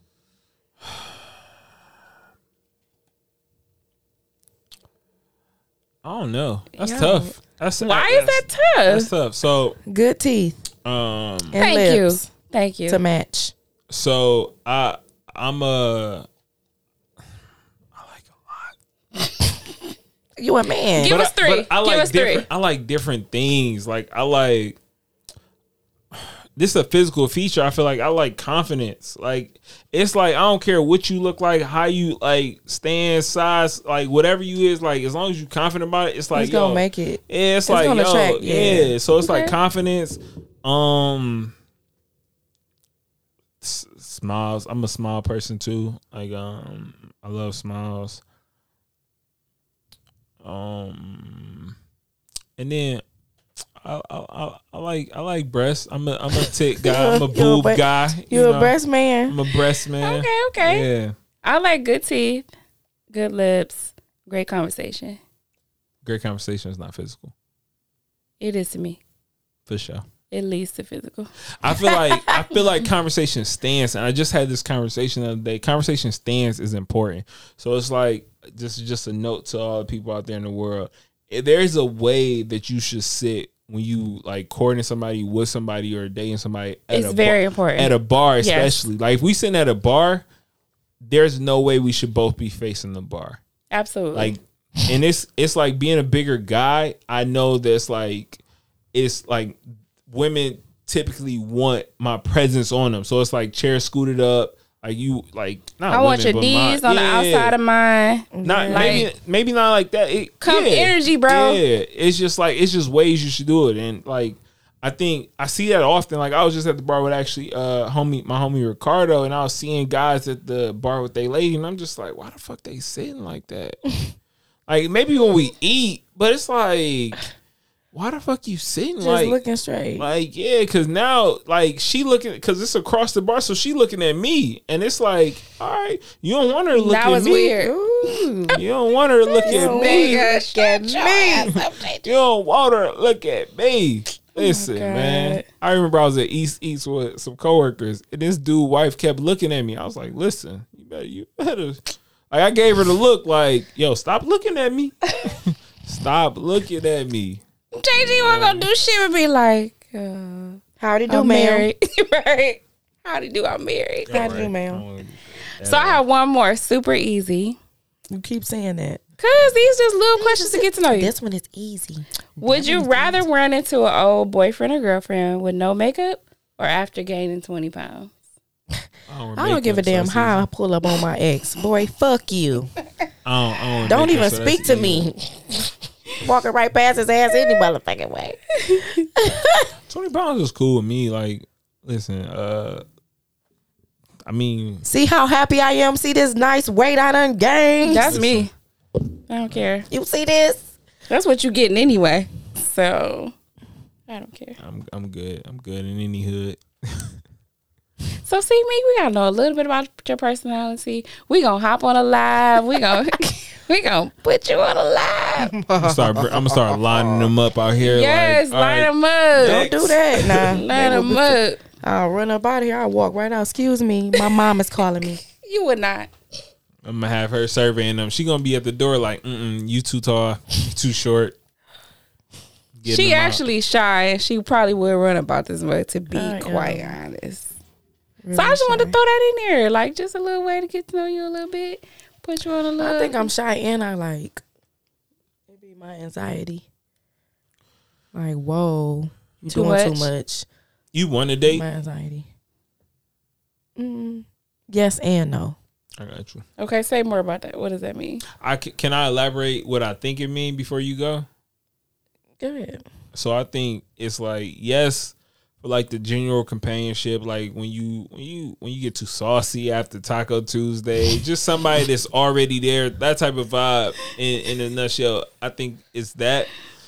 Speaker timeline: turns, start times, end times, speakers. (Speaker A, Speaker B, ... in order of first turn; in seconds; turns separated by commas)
Speaker A: 6.0-9.8, Speaker B: 6.9-7.2, Speaker C: 6.9-7.3, Speaker B: 7.8-9.1, Speaker C: 9.9-10.6, Speaker A: 10.8-11.6, Speaker C: 11.5-12.3, Speaker B: 11.6-13.0, Speaker C: 12.9-13.5, Speaker A: 13.9-16.3, Speaker A: 17.9-18.7, Speaker C: 20.4-21.2, Speaker B: 21.0-22.5, Speaker A: 21.0-24.8, Speaker A: 26.1-41.5, Speaker C: 36.3-39.0, Speaker B: 39.2-39.5, Speaker A: 43.6-48.2, Speaker A: 50.4-51.8, Speaker A: 52.6-53.0, Speaker A: 53.8-58.8, Speaker C: 56.8-59.4, Speaker A: 59.3-61.1, Speaker B: 60.0-60.9, Speaker B: 61.4-62.5, Speaker B: 63.1-65.2, Speaker A: 66.0-67.3, Speaker B: 68.4-69.0, Speaker A: 69.7-70.0, Speaker B: 70.3-71.3, Speaker A: 71.6-90.2, Speaker C: 71.7-72.4, Speaker B: 86.9-88.8, Speaker A: 91.0-93.4, Speaker B: 93.7-94.3, Speaker A: 94.1-98.4, Speaker A: 98.9-107.5, Speaker B: 105.9-109.1, Speaker C: 108.3-109.1, Speaker A: 108.4-123.9, Speaker B: 110.4-111.6, Speaker A: 124.7-127.2, Speaker A: 127.9-129.4, Speaker C: 129.0-130.1, Speaker A: 130.0-137.6, Speaker B: 136.7-137.7, Speaker C: 137.6-138.6, Speaker A: 138.5-140.3, Speaker B: 139.3-142.1, Speaker C: 139.4-141.6, Speaker A: 141.4-157.4, Speaker B: 144.4-145.3, Speaker C: 144.4-145.4, Speaker B: 157.8-164.3, Speaker A: 157.9-158.7, Speaker C: 160.8-161.7, Speaker A: 164.1-166.0, Speaker C: 164.1-164.8, Speaker B: 165.6-167.6, Speaker C: 168.1-169.0, Speaker B: 169.2-171.1, Speaker C: 170.2-173.2, Speaker B: 172.4-178.1, Speaker A: 179.1-180.5, Speaker C: 179.4-182.7, Speaker A: 183.2-185.1, Speaker C: 183.8-185.7, Speaker C: 186.2-188.4, Speaker B: 188.6-189.0, Speaker C: 189.2-189.7, Speaker A: 189.9-192.8, Speaker A: 194.3-194.8, Speaker C: 194.8-198.2, Speaker B: 197.8-198.5, Speaker A: 198.1-198.5, Speaker B: 199.3-199.9, Speaker C: 199.9-200.6, Speaker B: 201.1-203.3, Speaker B: 204.1-204.6, Speaker A: 204.6-207.1, Speaker B: 208.2-215.5, Speaker C: 215.4-217.3, Speaker A: 215.8-220.6, Speaker B: 217.8-219.7, Speaker C: 219.4-225.2, Speaker B: 220.5-221.6, Speaker B: 225.3-226.1, Speaker A: 226.8-231.4, Speaker A: 232.8-233.4, Speaker B: 232.9-237.5, Speaker C: 236.1-237.0, Speaker C: 238.2-239.0, Speaker B: 238.3-243.3, Speaker C: 242.8-244.4, Speaker C: 245.5-246.7, Speaker C: 248.1-250.5, Speaker B: 249.5-250.1, Speaker A: 250.9-251.7, Speaker C: 251.4-252.3, Speaker C: 253.8-255.6, Speaker A: 256.0-256.4, Speaker B: 256.6-258.2, Speaker A: 258.4-261.3, Speaker C: 262.4-262.8, Speaker A: 263.1-276.5